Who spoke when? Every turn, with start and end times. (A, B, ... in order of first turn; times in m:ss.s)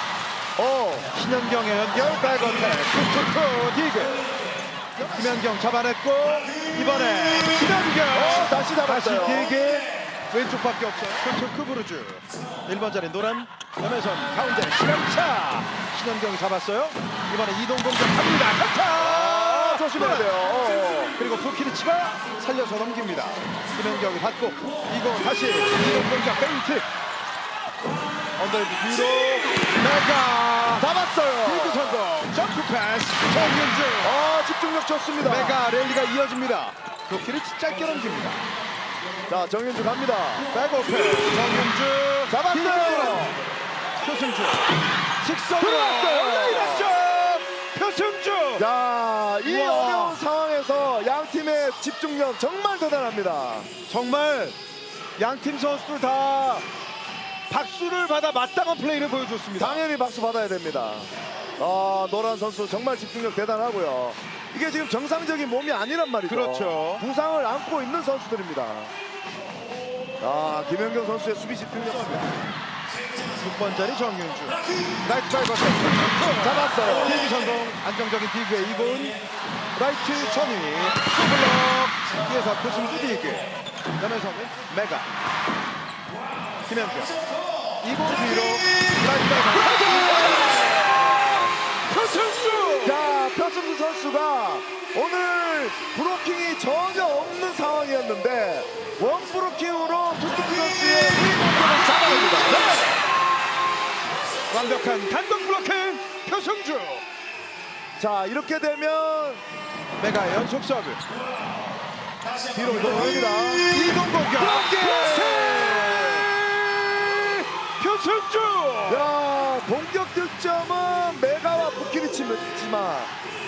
0:00.6-0:01.1 A
0:01.1-0:04.2 B
0:05.0-0:20.3 B
0:08.1-0:09.5 A
0:19.0-0:21.1 A
0:21.2-0:26.9 B
0:28.4-0:30.9 B
0:30.8-0:32.0 A
0:31.4-0:34.2 B
0:34.0-0:35.6 A
0:35.2-0:38.4 B
0:39.3-0:40.5 A
0:40.5-0:43.3 B
0:42.3-0:43.4 A
0:44.0-0:48.7 B
0:45.6-0:46.9 A
0:48.6-0:53.7 A
0:49.4-0:50.2 B
0:53.9-0:54.6 B
0:55.2-0:56.6 B
0:57.5-0:59.8 B
0:59.6-1:08.9 A
1:06.3-1:07.0 B
1:10.2-1:12.4 A
1:13.4-1:19.2 B
1:16.4-1:17.3 A
1:19.8-1:23.5 B
1:24.0-1:25.1 B
1:26.7-1:27.2 B
1:27.8-1:33.1 B
1:29.8-1:30.7 A
1:32.8-1:42.9 A
1:44.5-1:47.0 B
1:48.0-1:49.4 A
1:50.0-1:51.0 B
1:52.5-1:59.1 B
1:52.6-1:53.7 A
1:54.3-1:56.3 A
1:58.9-2:03.1 A